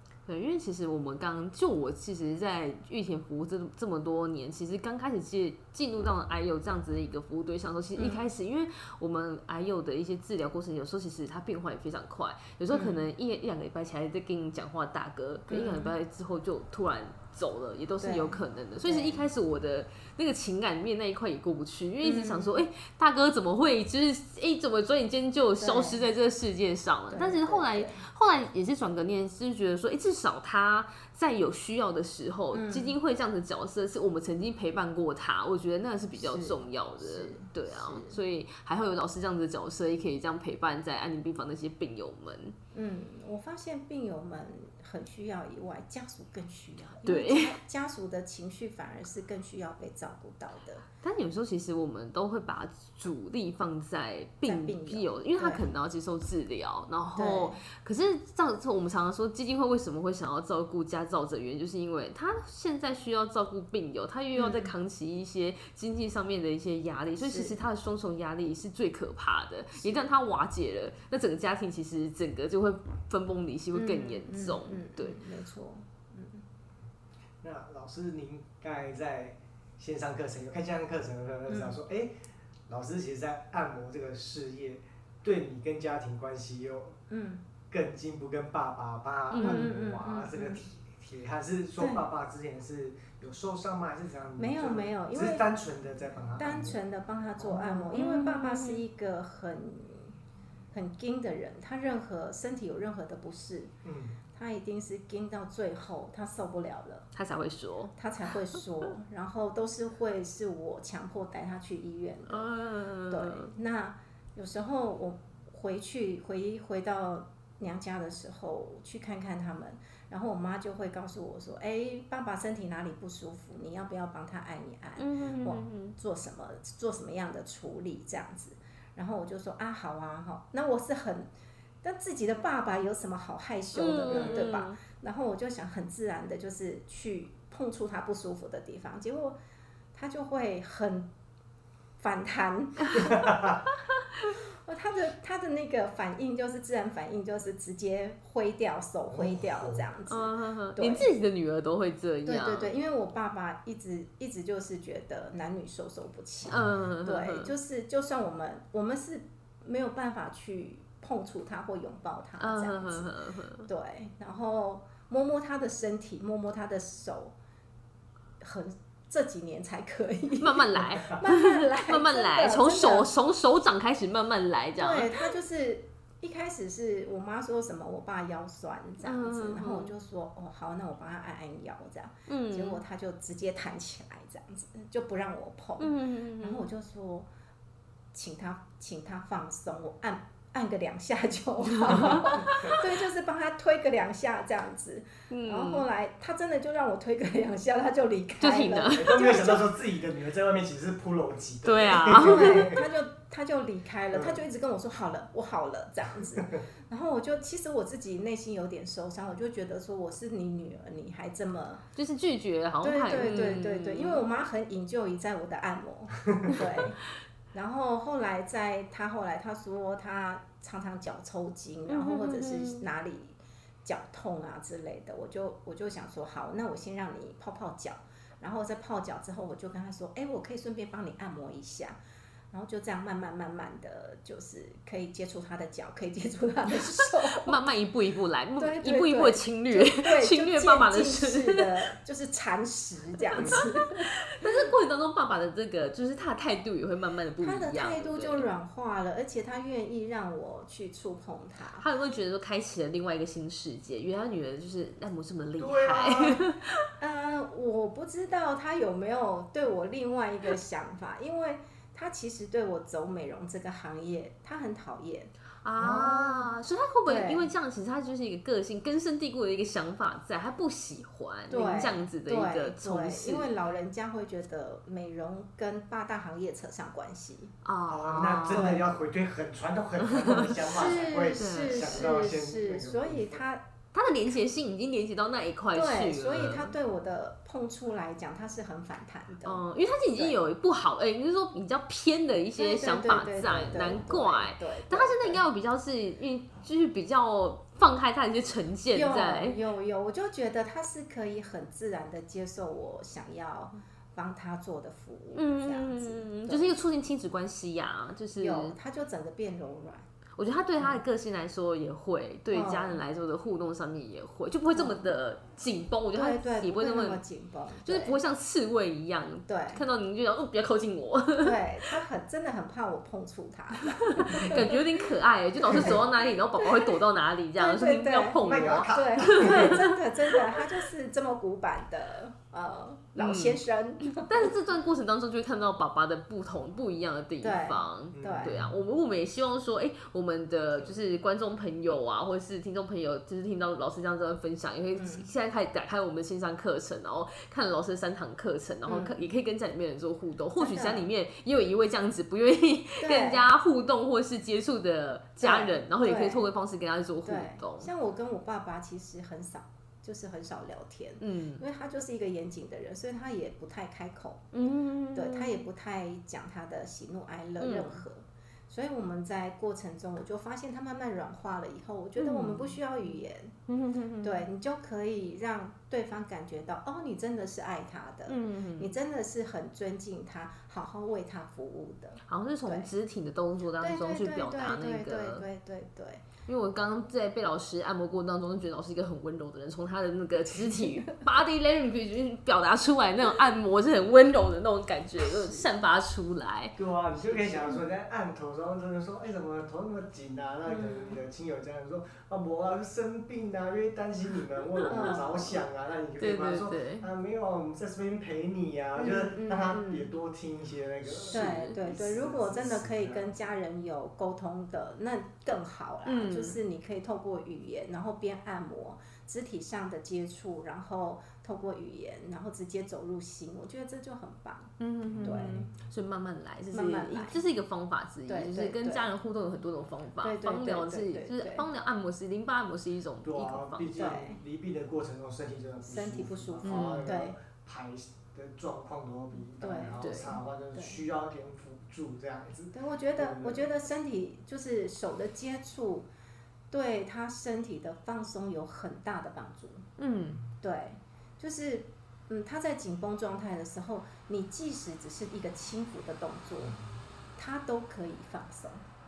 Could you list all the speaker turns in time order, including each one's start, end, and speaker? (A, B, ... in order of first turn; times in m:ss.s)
0:00.3-0:42.6 A
0:08.0-0:08.2 B
0:12.7-0:13.0 B
0:15.5-0:16.0 B
0:18.0-0:19.2 B
0:22.0-0:22.6 B
0:25.6-0:26.0 B
0:27.1-0:28.0 B
0:32.5-0:32.9 B
0:36.1-0:38.2 B
0:42.7-0:50.8 B
0:47.0-0:47.6 A
0:51.0-1:15.2 A
0:54.4-0:55.6 B
0:57.2-0:57.6 B
1:04.4-1:04.7 B
1:07.2-1:07.6 B
1:09.8-1:10.0 B
1:13.7-1:16.4 B
1:17.4-1:22.1 C
1:21.5-1:21.8 B
1:22.7-1:27.0 C
1:27.1-1:27.4 B
1:27.7-1:36.8 C
1:29.3-1:29.7 A
1:29.4-1:30.6 B
1:31.8-1:32.0 B
1:34.4-1:35.4 B
1:36.4-1:40.1 B
1:37.9-1:38.8 A
1:40.7-1:43.7 B
1:43.8-1:44.2 C
1:44.3-1:47.1 B
1:47.1-1:47.9 A
1:48.0-1:52.5 B
1:52.3-1:53.5 A
1:53.1-2:11.3 B
2:05.0-2:06.0 A
2:11.8-2:19.4 B
2:13.7-2:14.8 A
2:14.1-2:14.4 C
2:19.9-2:21.1 B
2:22.0-2:23.6 B
2:23.0-2:23.6 C
2:24.2-2:31.1 B
2:29.1-2:29.9 C
2:30.1-2:32.7 A
2:32.2-2:43.1 B
2:36.5-2:37.5 A
2:42.4-2:43.7 A
2:43.7-2:47.3 B
2:48.4-2:53.1 B
2:50.4-2:55.1 A
2:54.8-3:07.3 B
2:59.0-2:59.9 A
3:02.3-3:02.8 A
3:05.8-3:06.7 A
3:08.1-3:19.7 B
3:11.9-3:12.8 A
3:15.3-3:15.8 A
3:18.4-3:19.4 A
3:18.9-3:22.8 C
3:21.6-3:22.7 A
3:22.1-3:31.8 B
3:24.1-3:24.4 C
3:26.4-3:26.6 C
3:32.0-3:34.2 A
3:32.8-3:52.0 B
3:41.9-3:42.8 A
3:52.5-3:57.6 B
3:57.2-4:01.9 A
3:58.6-4:04.6 B
4:03.3-4:08.5 A
4:07.4-4:11.8 B
4:11.8-4:16.9 A
4:15.6-4:16.4 C
4:17.0-4:26.5 B
4:25.6-4:33.5 A
4:27.0-4:27.5 B
4:31.5-4:37.5 B
4:37.6-4:38.8 A
4:37.9-4:43.4 C
4:38.5-4:38.8 B
4:40.0-4:40.7 A
4:40.6-4:43.6 B
4:41.4-4:42.1 A
4:43.9-4:46.7 A
4:45.7-4:50.4 B
4:49.4-4:59.6 A
4:52.6-4:55.4 B
4:58.9-5:06.8 B
5:05.3-5:08.8 A
5:08.4-5:10.0 B
5:10.4-5:17.2 A
5:12.5-5:13.0 B
5:14.7-5:15.1 B
5:16.1-5:18.2 B
5:17.8-5:22.0 A
5:19.5-5:19.8 B
5:21.4-5:24.8 B
5:24.0-5:30.0 A
5:25.6-5:27.0 B
5:27.6-5:34.5 B
5:28.4-5:29.9 C
5:33.2-5:33.6 A
5:34.1-5:57.9 A
5:37.4-5:38.6 B
5:38.1-5:38.8 C
5:44.9-5:45.3 B
5:48.8-5:49.2 B
5:50.6-5:51.1 B
5:53.0-5:53.4 B
5:55.4-5:56.5 B
5:57.2-6:04.5 B
6:01.2-6:01.6 A
6:04.5-6:05.7 A
6:05.1-6:13.5 B
6:07.6-6:08.0 A
6:12.2-6:12.8 A
6:13.7-6:14.4 A
6:14.2-6:22.9 B
6:18.3-6:18.9 A
6:22.3-6:25.4 A
6:23.8-6:26.3 B
6:26.5-6:36.7 A
6:30.5-6:31.2 B
6:35.3-6:35.7 B
6:36.8-6:53.3 C
6:37.3-6:37.5 A
6:40.7-6:41.2 B
6:44.8-6:45.2 A
6:44.8-6:45.6 B
6:46.2-6:47.1 A
6:49.0-6:50.1 B
6:51.2-7:05.7 B
6:51.3-6:51.8 A
6:56.0-6:56.6 A
7:04.8-7:13.9 A
7:05.0-7:05.7 C
7:06.7-7:07.4 B
7:08.3-7:09.1 B
7:10.2-7:11.7 B
7:13.2-7:23.7 C
7:13.9-7:14.4 B
7:15.8-7:17.4 B
7:16.6-7:17.1 A
7:19.6-7:21.0 B
7:20.0-7:20.4 A
7:22.7-7:26.1 B
7:26.7-7:29.8 B
7:30.0-7:30.4 A
7:30.6-7:36.8 B
7:37.4-7:38.8 B